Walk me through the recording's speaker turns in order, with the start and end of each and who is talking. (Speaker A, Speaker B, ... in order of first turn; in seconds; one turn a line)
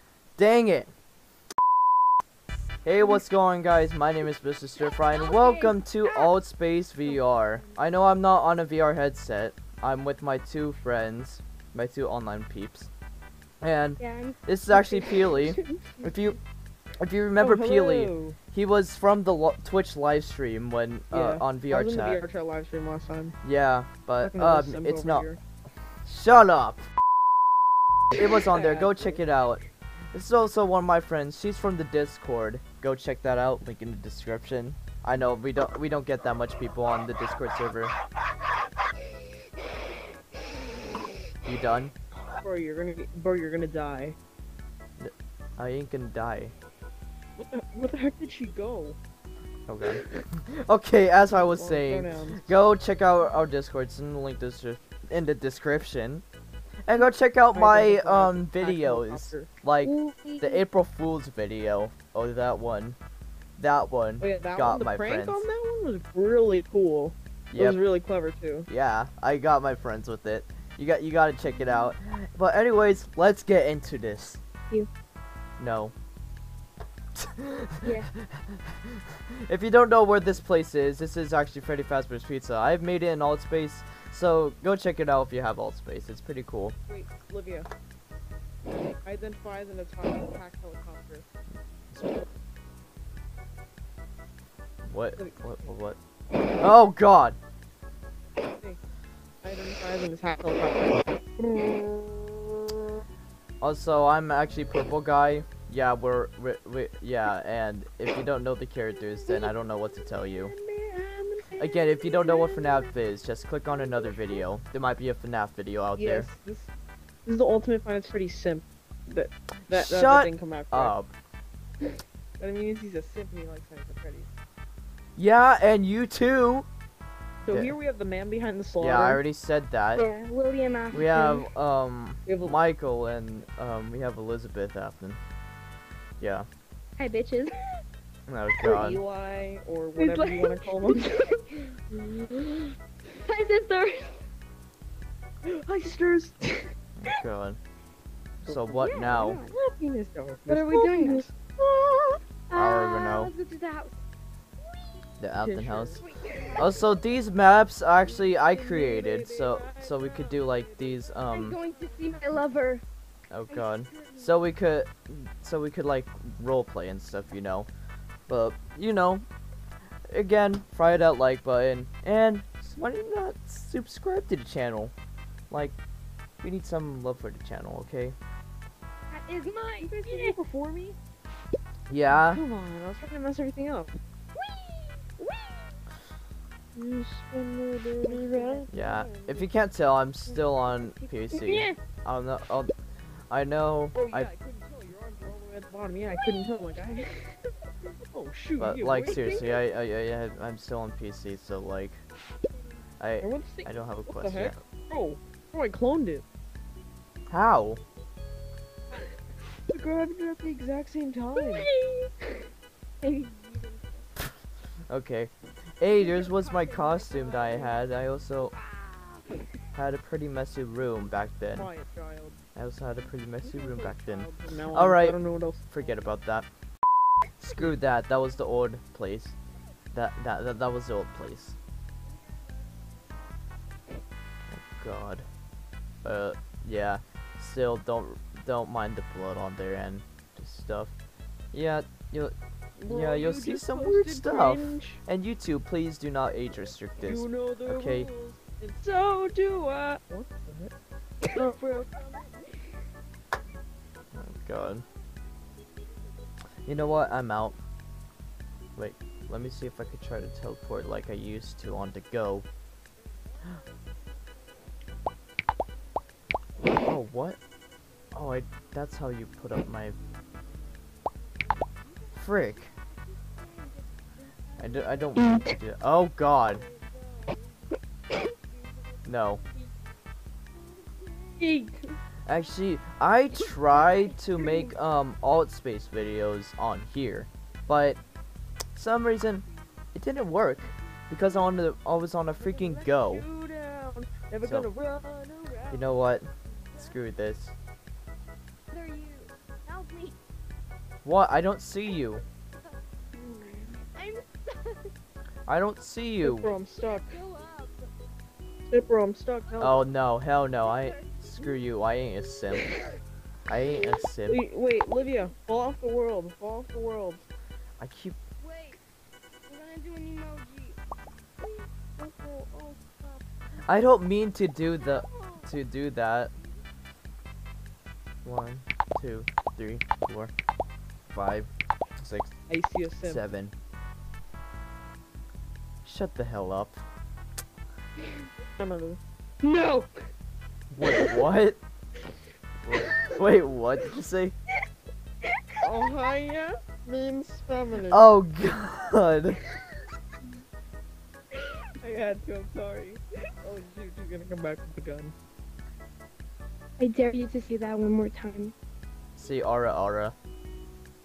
Speaker A: 0.3-0.9
Speaker A: 2.8-12.9
Speaker B: 4.8-6.3
Speaker B: 7.1-7.7
Speaker A: 13.6-16.4
Speaker B: 14.0-16.1
Speaker A: 17.0-22.2
Speaker C: 17.4-18.4
Speaker C: 21.1-23.4
Speaker A: 23.4-25.3
Speaker C: 24.2-25.4
Speaker A: 26.1-26.9
Speaker A: 28.1-29.6
Speaker C: 28.5-29.2
Speaker A: 30.1-37.9
Speaker A: 41.4-41.9
Speaker C: 42.3-44.2
Speaker A: 45.0-46.5
Speaker C: 47.4-49.0
Speaker A: 49.7-56.2
Speaker C: 51.3-52.5
Speaker A: 56.9-63.0
Speaker C: 57.5-59.5
Speaker B: 59.8-60.6
Speaker A: 63.6-65.4
Speaker C: 64.2-68.7
Speaker A: 67.5-67.8
Speaker A: 68.7-74.4
Speaker B: 71.6-71.9
Speaker A: 75.6-75.9
Speaker A: 77.2-86.8
Speaker B: 77.8-78.1
Speaker C: 86.9-87.7
Speaker C: 89.0-91.2
Speaker A: 91.9-92.2
Speaker A: 94.9-96.0
Speaker A: 96.6-97.4
Speaker C: 99.4-102.9
Speaker A: 103.6-110.5
Speaker C: 110.3-112.3
Speaker A: 111.6-116.3
Speaker B: 112.1-112.7
Speaker C: 116.0-116.7
Speaker C: 117.3-121.0
Speaker A: 119.7-121.1
Speaker C: 122.4-124.3
Speaker A: 125.2-126.7
Speaker C: 127.4-129.2
Speaker A: 128.8-130.1
Speaker B: 129.9-131.5
Speaker A: 130.9-135.2
Speaker C: 132.2-132.6
Speaker A: 136.2-136.5
Speaker B: 137.0-137.5
Speaker A: 138.3-139.0
Speaker C: 138.6-141.0
Speaker B: 139.9-141.7
Speaker C: 141.9-142.7
Speaker B: 143.2-144.2
Speaker C: 145.4-146.7
Speaker A: 147.0-147.6
Speaker C: 148.4-152.2
Speaker A: 148.4-149.4
Speaker B: 148.8-149.5
Speaker B: 150.5-151.3
Speaker B: 152.5-154.0
Speaker A: 152.5-153.3
Speaker A: 155.2-156.0
Speaker C: 155.4-156.8
Speaker B: 156.0-156.9
Speaker A: 156.6-161.6
Speaker C: 158.0-162.6
Speaker B: 161.3-162.8
Speaker A: 163.3-167.7
Speaker B: 163.5-164.5
Speaker A: 168.3-169.2
Speaker A: 170.1-174.9
Speaker A: 175.5-175.8
Speaker A: 176.4-178.2
Speaker B: 179.1-180.3
Speaker C: 179.8-181.0
Speaker A: 181.9-182.4
Speaker C: 182.1-184.0
Speaker B: 184.3-185.7
Speaker B: 186.9-189.2
Speaker C: 188.0-189.4
Speaker A: 188.7-192.7
Speaker B: 190.3-191.8
Speaker A: 193.3-194.3
Speaker C: 193.9-197.1
Speaker B: 196.2-197.4
Speaker C: 198.1-199.5
Speaker A: 198.6-202.0
Speaker B: 199.0-199.6
Speaker A: 203.0-204.6
Speaker C: 203.2-206.2
Speaker A: 207.3-207.8
Speaker C: 209.7-211.7
Speaker B: 211.4-212.4
Speaker B: 213.0-214.0
Speaker A: 214.9-218.5
Speaker B: 215.9-219.4
Speaker A: 219.7-221.7
Speaker C: 221.5-222.4
Speaker A: 222.5-225.2
Speaker C: 223.4-225.7
Speaker A: 225.7-226.5
Speaker A: 227.4-229.3
Speaker A: 229.9-231.6
Speaker A: 234.5-235.2
Speaker A: 236.0-240.9
Speaker A: 241.5-242.3
Speaker C: 242.8-245.0
Speaker A: 242.8-248.1
Speaker C: 247.0-250.7
Speaker B: 251.2-251.5
Speaker C: 251.3-252.3
Speaker A: 254.1-254.8
Speaker A: 256.6-257.6
Speaker A: 258.8-262.4
Speaker A: 266.8-267.4
Speaker A: 268.1-269.9
Speaker A: 272.1-272.7
Speaker B: 273.2-275.6
Speaker A: 274.6-276.6
Speaker B: 276.6-279.7
Speaker A: 279.1-279.4
Speaker B: 280.6-281.9
Speaker A: 282.3-288.0
Speaker B: 283.4-284.7
Speaker A: 288.8-293.2
Speaker C: 292.4-295.9
Speaker A: 295.7-297.5
Speaker B: 298.7-300.2
Speaker A: 301.0-302.2
Speaker B: 301.9-302.2
Speaker B: 303.1-304.9
Speaker A: 305.5-306.5
Speaker C: 306.2-307.2
Speaker B: 306.8-307.9
Speaker C: 308.7-309.8
Speaker A: 309.6-312.7
Speaker B: 310.6-311.6
Speaker A: 313.5-314.4
Speaker C: 314.3-317.2
Speaker B: 315.0-315.3
Speaker A: 317.8-318.1
Speaker B: 318.4-318.8
Speaker B: 319.5-320.8
Speaker B: 321.4-323.1
Speaker A: 323.6-326.3
Speaker B: 324.8-325.5
Speaker A: 328.2-330.3
Speaker A: 331.1-332.3
Speaker C: 332.5-333.2
Speaker A: 333.0-333.5
Speaker A: 335.8-336.8
Speaker C: 338.6-339.0
Speaker B: 339.4-340.1
Speaker A: 340.7-341.6
Speaker B: 340.8-341.2
Speaker A: 342.6-344.3
Speaker B: 342.8-343.2
Speaker C: 345.6-348.1
Speaker A: 347.9-349.4
Speaker C: 351.8-355.1
Speaker B: 356.8-358.5
Speaker A: 359.2-360.1